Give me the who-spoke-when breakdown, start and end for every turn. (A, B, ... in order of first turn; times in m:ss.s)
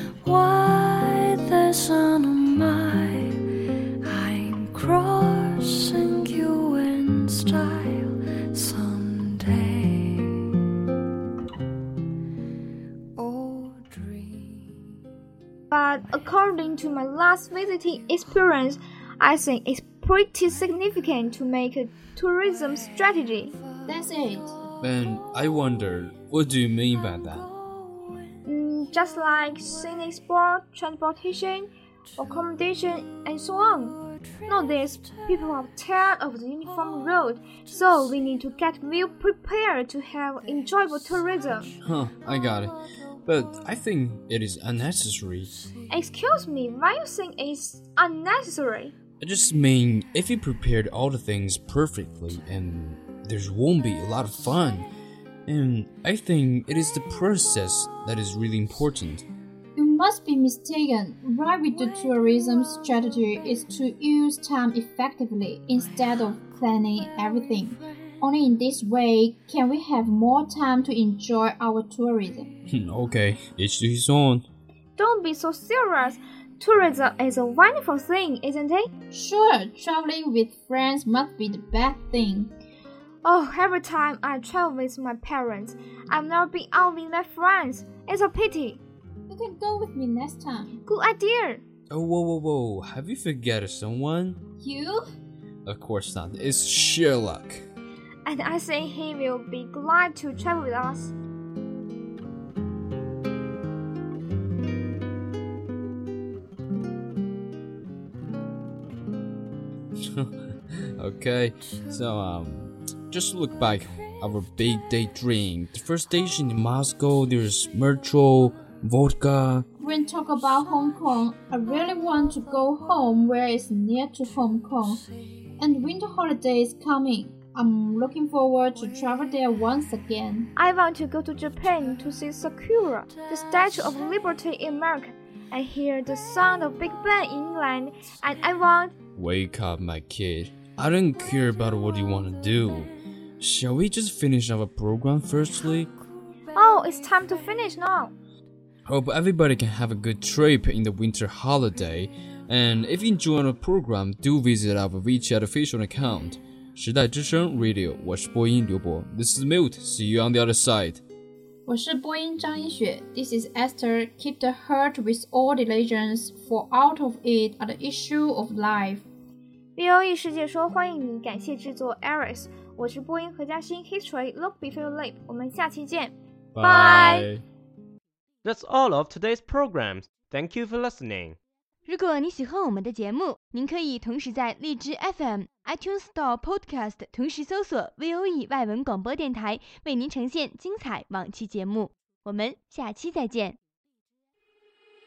0:00.2-0:03.4 A
0:04.0-0:10.3 A
0:15.7-0:23.6 B
0:23.8-0:24.6 C
0:24.8-0:27.5 D
0:28.4-0:41.7 B
0:41.8-0:45.5 D
0:45.9-0:48.9 B
0:49.2-0:54.9 D
0:55.5-0:59.2 D
0:59.7-1:12.5 C
1:12.7-1:14.4 D
1:15.0-1:18.9 B
1:19.1-1:22.5 C
1:23.2-1:28.8 B
1:29.3-1:30.8 C
1:30.8-1:31.6 B
1:31.9-1:34.4 D
1:34.6-1:35.0 C
1:35.6-1:37.6 D
1:38.2-1:41.1 B
1:51.0-1:59.6 D
1:59.8-2:05.0 C
2:05.6-2:10.5 C
2:10.6-2:18.9 B
2:19.2-2:25.9 D
2:26.5-2:28.1 B
2:28.9-2:41.0 D
2:41.7-2:49.0 C
2:49.8-2:57.3 B
2:56.5-2:57.4 D
2:58.4-3:01.4 E
3:01.9-3:13.6 F